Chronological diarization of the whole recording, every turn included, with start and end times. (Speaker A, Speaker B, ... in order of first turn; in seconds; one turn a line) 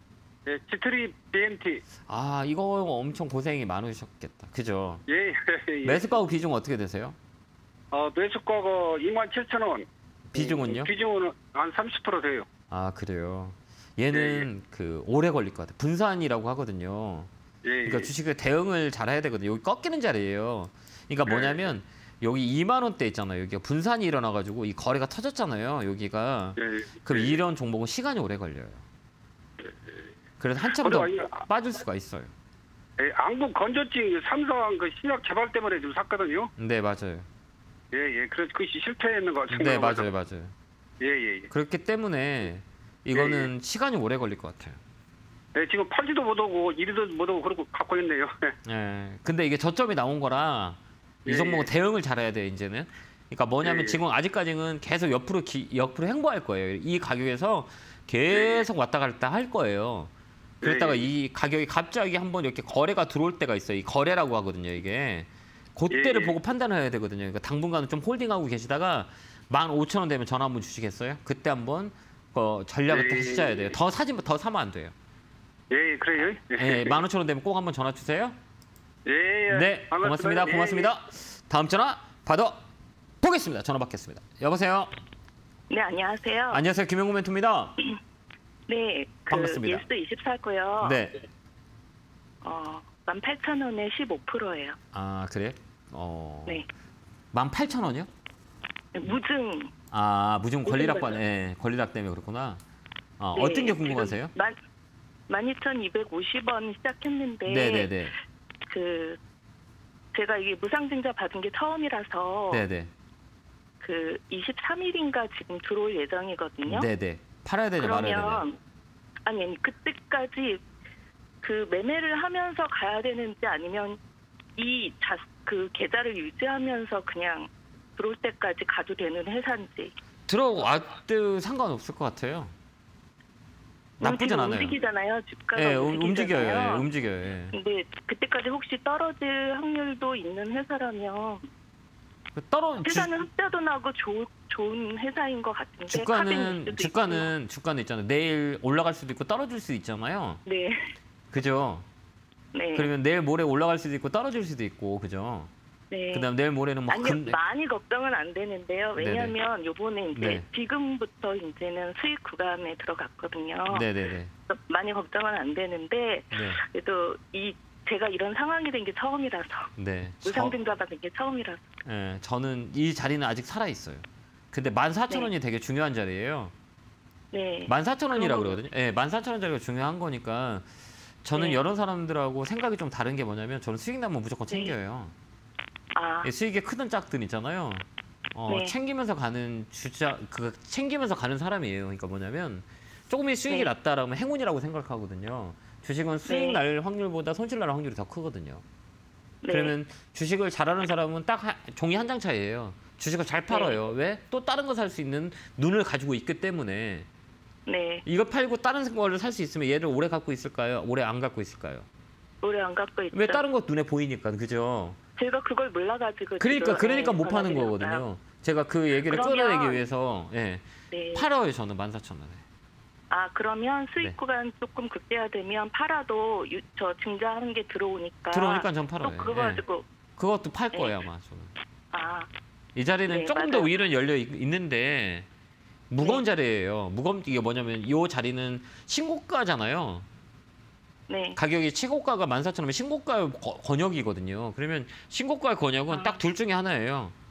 Speaker A: 0.5-1.8
Speaker B: 2.1-5.0
Speaker A: 5.1-6.1
Speaker B: 5.8-7.2
Speaker A: 7.9-12.4
Speaker B: 10.3-10.9
Speaker B: 12.7-17.3
Speaker A: 14.1-14.4
Speaker A: 17.6-18.1
Speaker B: 17.8-28.8
Speaker A: 21.3-21.5
Speaker A: 26.6-27.3
Speaker B: 30.4-32.3
Speaker A: 30.8-31.4
Speaker A: 33.0-36.5
Speaker B: 36.6-37.3
Speaker A: 37.9-40.1
Speaker B: 39.5-40.5
Speaker A: 41.0-41.5
Speaker B: 41.5-44.8
Speaker A: 43.1-43.5
Speaker A: 45.5-48.5
Speaker B: 48.6-60.1
Speaker A: 51.2-51.7
Speaker A: 53.6-54.0
Speaker A: 58.3-58.6
Speaker A: 60.6-61.1
Speaker B: 60.6-74.9
Speaker A: 65.9-66.3
Speaker A: 72.9-73.6
Speaker A: 75.7-77.0
Speaker B: 76.2-78.4
Speaker A: 79.0-80.9
Speaker B: 79.5-82.6
Speaker B: 83.2-84.9
Speaker C: 85.7-86.6
Speaker B: 86.5-87.8
Speaker C: 88.7-91.0
Speaker B: 89.3-89.8
Speaker B: 90.8-91.2
Speaker C: 92.4-94.8
Speaker B: 94.9-96.6
Speaker B: 97.3-98.1
Speaker C: 98.9-99.7
Speaker B: 99.9-102.6
Speaker C: 100.6-101.1
Speaker B: 103.2-104.3
Speaker C: 103.3-104.6
Speaker C: 105.3-108.0
Speaker B: 107.5-108.1
Speaker C: 108.7-109.2
Speaker C: 110.1-112.7
Speaker B: 112.5-112.9
Speaker C: 113.8-116.9
Speaker B: 116.6-118.4
Speaker C: 117.8-118.6
Speaker C: 119.2-120.6
Speaker C: 121.4-124.0
Speaker C: 124.5-129.9
Speaker B: 130.3-132.5
Speaker C: 134.0-136.9
Speaker B: 134.0-134.7
Speaker B: 135.5-137.5
Speaker C: 137.5-141.4
Speaker B: 142.3-143.1
Speaker C: 142.8-147.3
Speaker B: 145.9-150.4
Speaker C: 150.4-150.9
Speaker B: 151.3-151.8
Speaker C: 152.5-152.9
Speaker B: 152.7-155.5
Speaker C: 155.9-156.3
Speaker B: 156.1-157.4
Speaker C: 156.9-163.9
Speaker B: 159.0-159.3
Speaker B: 160.1-160.4
Speaker B: 163.7-164.3
Speaker C: 164.5-169.7
Speaker B: 166.3-166.6
Speaker B: 169.8-170.6
Speaker C: 170.2-171.7
Speaker B: 171.8-176.5
Speaker C: 177.3-178.6
Speaker B: 177.7-180.7
Speaker B: 181.2-185.1
Speaker C: 181.3-181.6
Speaker C: 185.9-186.3
Speaker B: 186.2-198.6
Speaker C: 188.5-188.7
Speaker C: 196.3-196.6
Speaker C: 199.4-199.7
Speaker B: 199.5-207.1
Speaker C: 203.5-203.8
Speaker C: 207.7-208.0
Speaker B: 208.1-211.9
Speaker C: 212.4-213.4
Speaker B: 213.1-215.0
Speaker C: 215.2-218.0
Speaker B: 216.4-222.4
Speaker C: 219.1-219.8
Speaker C: 220.9-221.3
Speaker C: 223.1-229.8
Speaker B: 228.3-229.6
Speaker B: 230.2-231.5
Speaker C: 231.9-232.3
Speaker B: 232.7-235.3
Speaker C: 233.1-233.7
Speaker B: 235.9-240.1
Speaker C: 241.1-241.4
Speaker B: 241.3-247.1
Speaker C: 245.9-246.2